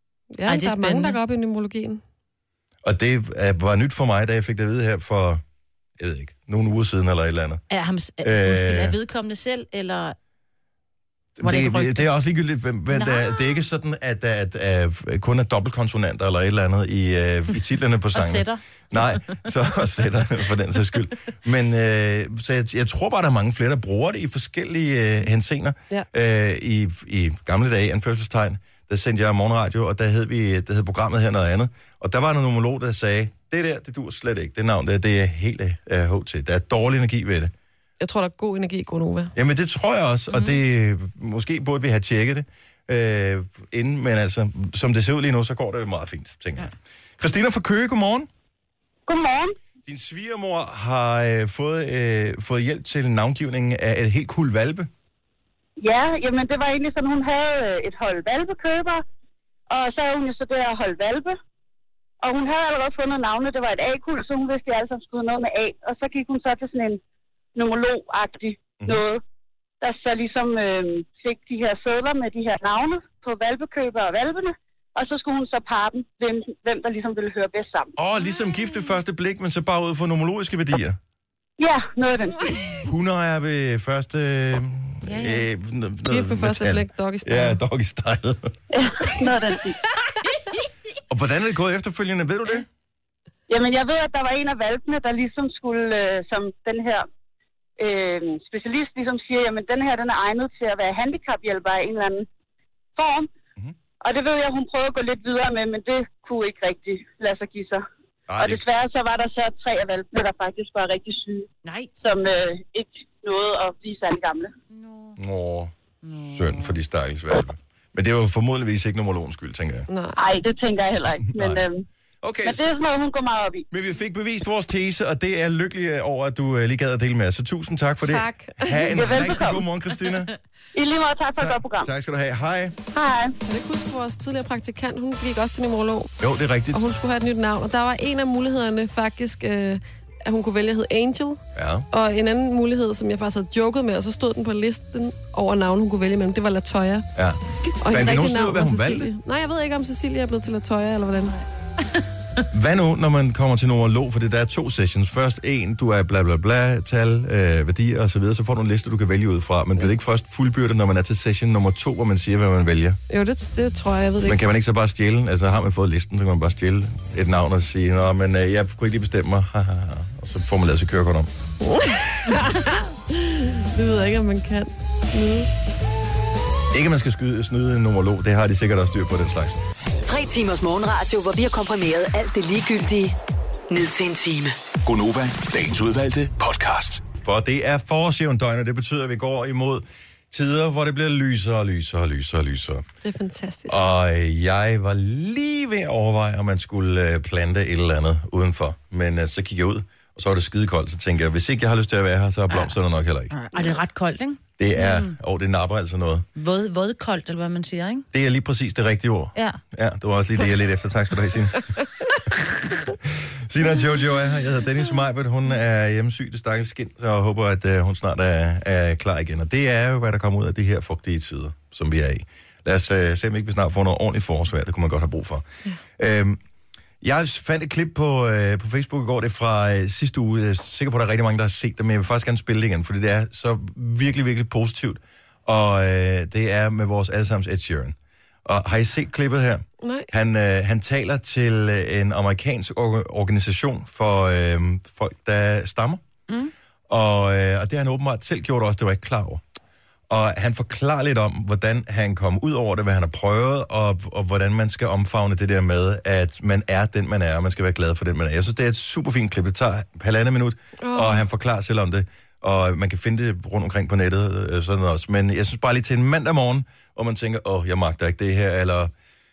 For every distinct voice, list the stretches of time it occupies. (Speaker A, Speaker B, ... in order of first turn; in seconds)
Speaker A: 0.3-2.0, 38.0-39.3, 86.1-87.6, 119.9-120.2, 128.0-129.3, 133.5-136.1, 136.7-147.1, 147.8-151.3, 163.1-164.4, 171.6-175.5, 193.0-193.8, 239.8-240.1, 260.8-261.2
Speaker B: 0.5-1.2, 7.7-10.2, 11.4-12.1, 12.9-13.6, 18.1-19.4, 40.3-40.6, 85.0-85.5, 111.6-111.9, 114.7-115.2, 116.0-116.8, 203.3-205.1, 206.3-208.1
Speaker C: 2.8-5.4, 6.0-7.6, 8.2-8.9, 11.4-37.5, 39.4-48.3, 49.8-54.9, 78.0-81.0, 82.8-88.5, 91.1-92.7, 108.3-108.6, 115.2-115.7, 116.3-119.9, 121.2-121.6, 122.2-122.7, 123.7-130.3, 131.3-132.8, 136.2-136.8, 141.6-141.9, 147.2-149.1, 152.5-163.0, 164.2-171.3, 176.7-179.6, 187.2-192.8, 193.7-203.3, 204.6-206.3, 208.1-211.9, 212.9-225.5, 226.0-226.4, 227.0-237.9, 238.4-246.0, 246.9-249.4, 250.1-268.9
Speaker D: 49.1-49.5, 55.8-59.0, 59.7-61.4, 62.2-67.0, 67.5-69.2, 69.8-77.9, 81.6-82.5, 88.7-89.8, 93.5-97.1, 97.8-102.3, 103.0-103.3, 104.0-107.8, 108.4-111.5, 112.0-114.5, 120.2-121.8, 122.4-123.7, 128.8-129.6, 130.7-131.9, 132.9-133.3
Speaker E: 180.0-183.2, 183.7-184.6
Speaker F: 184.8-187.0